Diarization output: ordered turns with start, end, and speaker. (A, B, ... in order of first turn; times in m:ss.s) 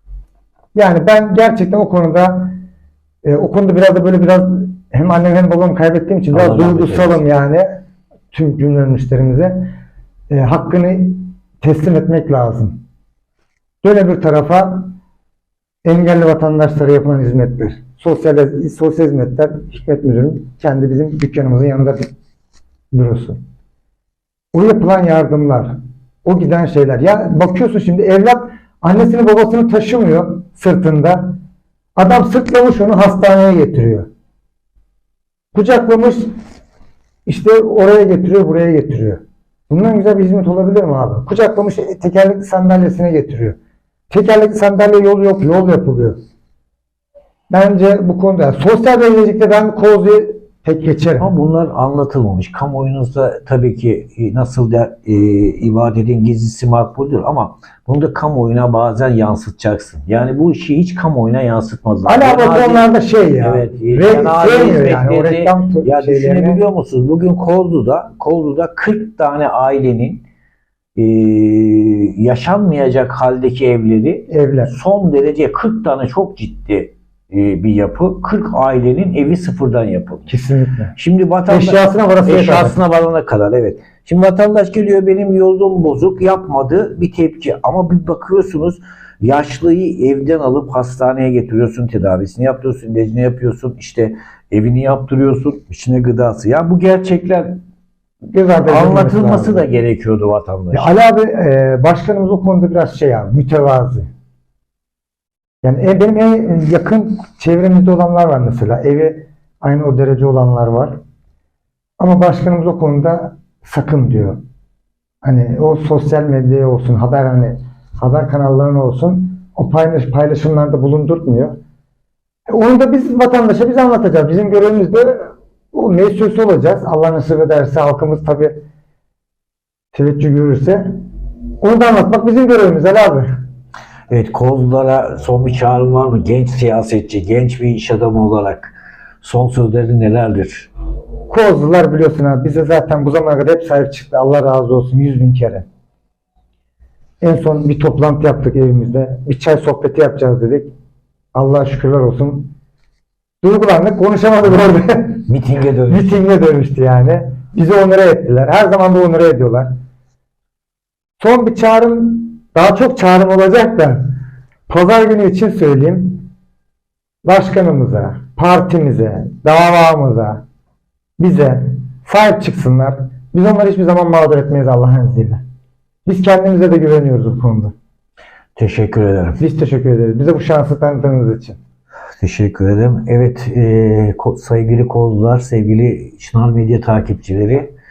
0:00.8-0:02.6 A
0:03.2-0:07.8 A
0:06.3-0:07.2 B
0:08.3-0:09.7 A
0:10.3-0:12.8 A
0:13.8-0:14.9 A
0:15.8-0:22.1 A
0:22.9-0:23.4 A
0:24.5-0:31.4 A
0:32.0-0:34.1 A
0:35.5-0:36.3 A
0:37.3-0:43.6 A
0:44.1-0:46.2 A
0:47.5-0:51.3 A
0:51.2-1:02.9 B
1:02.1-1:06.6 A
1:03.4-1:10.2 B
1:11.0-1:20.3 B
1:14.3-1:14.7 A
1:20.3-1:21.0 A
1:21.0-1:37.6 B
1:21.5-1:22.8 A
1:38.3-1:39.7 A
1:38.7-1:40.9 B
1:40.7-1:44.1 A
1:45.6-1:51.0 A
1:52.0-1:54.4 A
1:55.2-2:01.6 A
2:02.5-2:08.6 A
2:09.9-2:10.9 A
2:11.6-2:13.3 A
2:14.1-2:20.7 B
2:21.3-2:25.7 A
2:27.2-2:30.7 A
2:31.3-2:32.5 A
2:33.4-2:35.3 A
2:35.3-2:36.2 B
2:35.9-2:39.7 A
2:41.2-2:44.1 A
2:44.7-2:46.3 A
2:47.2-2:50.4 A
2:51.2-2:55.4 A
2:56.1-2:57.7 A
2:58.6-2:59.4 B
2:59.4-3:01.6 A
3:02.2-3:07.7 B